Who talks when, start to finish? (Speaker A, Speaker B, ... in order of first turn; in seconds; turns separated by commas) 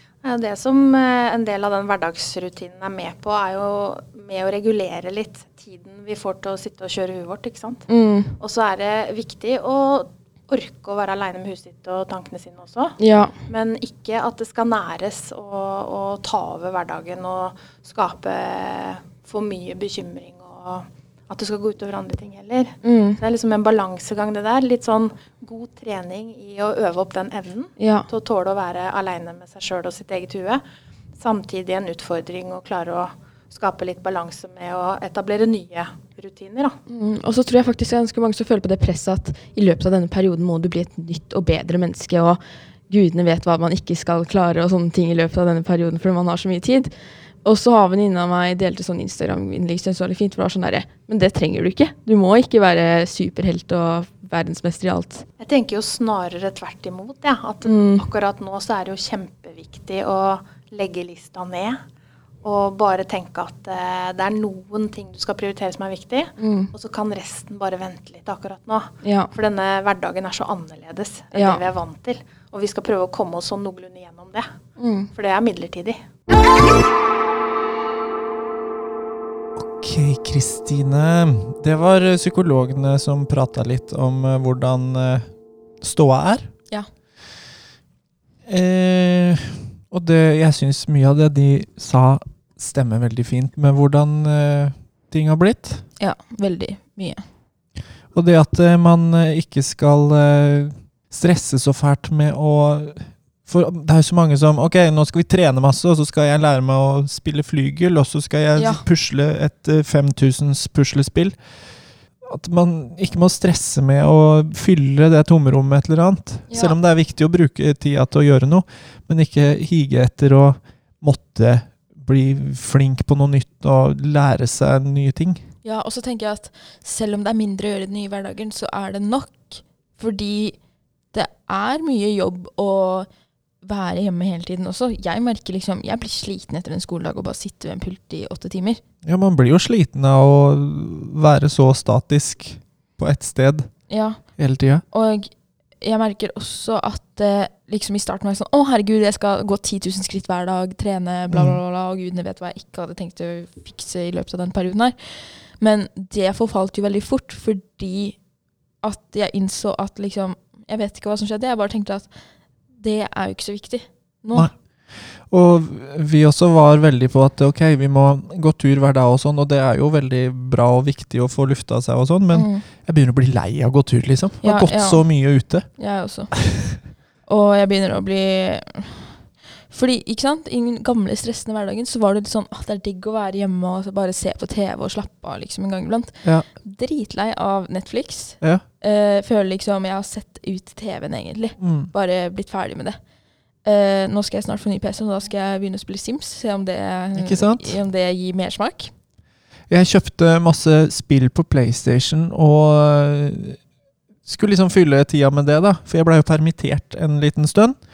Speaker A: 0.2-7.9, Speaker B: 7.9-8.3, Speaker A: 8.4-30.6, Speaker B: 13.0-13.3, Speaker B: 22.8-23.2, Speaker B: 27.8-28.1, Speaker A: 31.2-36.8, Speaker B: 36.9-46.9, Speaker B: 47.4-55.2, Speaker A: 55.4-61.8, Speaker B: 57.6-58.0, Speaker A: 62.4-74.5, Speaker B: 66.4-66.7, Speaker B: 69.0-69.3, Speaker B: 71.3-71.6, Speaker B: 74.8-75.1, Speaker A: 75.1-76.0, Speaker C: 79.5-85.3, Speaker C: 85.8-86.5, Speaker C: 88.5-95.8, Speaker B: 96.0-97.2, Speaker C: 98.1-111.3, Speaker B: 108.5-108.8, Speaker C: 112.2-125.4, Speaker B: 116.5-116.8, Speaker B: 125.6-130.6, Speaker B: 131.1-133.1, Speaker B: 133.6-138.8, Speaker C: 139.0-143.7, Speaker B: 143.9-144.2, Speaker C: 144.4-144.8, Speaker B: 144.9-145.3, Speaker B: 145.8-158.2, Speaker C: 151.3-151.6, Speaker B: 158.8-162.1, Speaker B: 162.8-164.5, Speaker C: 165.3-175.7, Speaker B: 172.3-172.6, Speaker B: 174.4-175.1, Speaker B: 175.8-176.3, Speaker B: 177.3-179.2, Speaker B: 179.7-193.0, Speaker C: 191.6-191.9, Speaker B: 193.6-198.9, Speaker C: 197.1-197.8, Speaker C: 199.7-203.6, Speaker C: 204.2-207.8